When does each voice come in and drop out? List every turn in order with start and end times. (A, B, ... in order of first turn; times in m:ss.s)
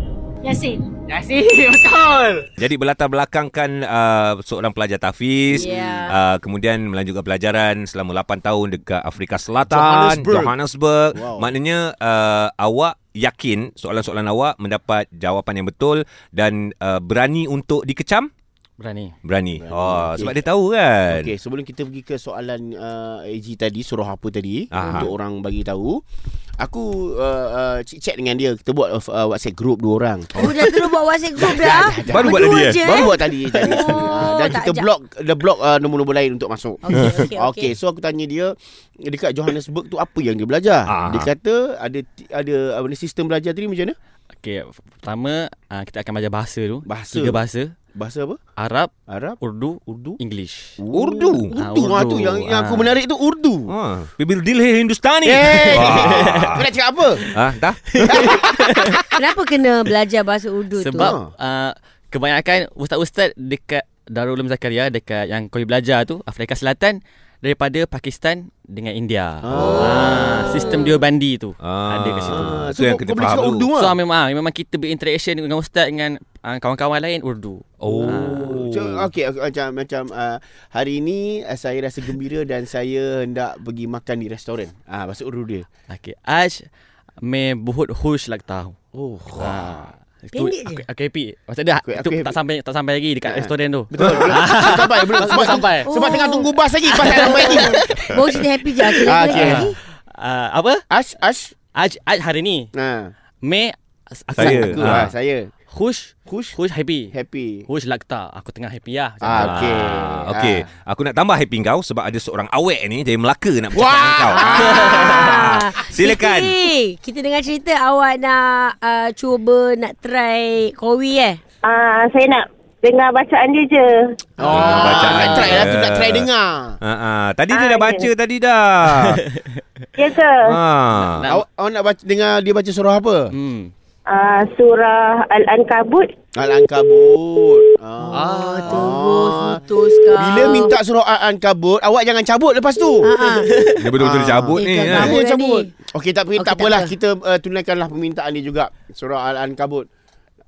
0:01.1-0:02.4 A
0:02.6-0:18.3 B
0:05.5-0:06.1 C
0:05.6-0:06.1 D
0:09.7-0:10.5 C
0:11.1-0:11.5 C
0:18.8-0:19.1 A
0:19.2-0:21.3 B
0:19.6-0:20.4 C
0:21.1-0:26.0 C
0:24.7-0:25.1 B
0:26.6-0:30.5 C
0:30.3-0:34.9 D
0:31.4-0:44.0 C
0:32.1-0:33.0 B
0:36.8-0:37.7 D
0:40.9-0:41.3 B
0:44.4-0:47.7 A
0:46.8-0:47.4 C
0:47.9-0:48.4 C
0:48.6-0:48.9 A
0:49.1-0:50.2 C
0:49.4-0:50.8 A
0:50.8-0:53.7 C
0:50.9-0:51.5 B
0:51.6-0:52.9 A
0:53.7-0:56.7 B
0:55.2-0:57.2 C
0:55.7-0:56.5 A
0:57.3-0:58.2 B
0:57.9-0:59.0 A
0:58.0-0:59.0 C
0:59.1-1:01.1 D
1:00.8-1:12.6 A
1:01.0-1:01.3 C
1:09.4-1:10.4 C
1:09.5-1:09.9 B
1:09.6-1:10.9 D
1:11.6-1:13.7 B
1:12.3-1:13.9 C
1:13.8-1:18.6 A
1:17.8-1:19.1 B
1:18.2-1:25.6 C
1:25.9-1:26.7 A
1:27.2-1:28.8 A
1:28.9-1:29.5 C
1:29.4-1:36.3 A
1:30.3-1:30.8 D
1:31.8-1:32.4 C
1:33.2-1:38.4 C
1:34.0-1:34.3 B
1:35.9-1:36.5 D
1:36.9-1:38.1 A
1:38.0-1:39.8 D
1:38.9-1:40.8 A
1:39.0-1:39.8 C
1:40.9-1:41.5 C
1:41.8-1:42.7 A
1:42.7-1:43.1 C
1:43.4-1:45.1 A
1:44.3-1:45.5 C
1:44.4-1:45.1 B
1:45.7-1:47.1 A
1:46.3-1:46.6 C
1:47.1-1:47.7 C
1:47.7-1:50.0 A
1:49.2-1:50.7 C
1:49.3-1:56.5 B
1:53.7-1:55.6 C
1:54.4-2:01.4 D
2:01.6-2:04.2 E
2:04.4-2:06.8 C
2:04.4-2:06.2 B
2:06.8-2:09.2 B
2:07.5-2:08.1 E
2:09.0-2:09.3 A
2:10.0-2:10.5 E
2:10.5-2:11.2 B
2:11.0-2:11.4 A
2:11.2-2:13.3 C
2:13.3-2:13.7 A
2:14.1-2:16.1 E
2:16.4-2:19.6 C
2:18.1-2:20.8 D
2:18.1-2:19.0 A
2:20.1-2:23.1 C
2:23.0-2:23.5 D
2:23.2-2:23.8 A
2:23.8-2:25.1 B
2:24.0-2:29.9 C
2:24.5-2:25.7 D
2:26.4-2:26.9 D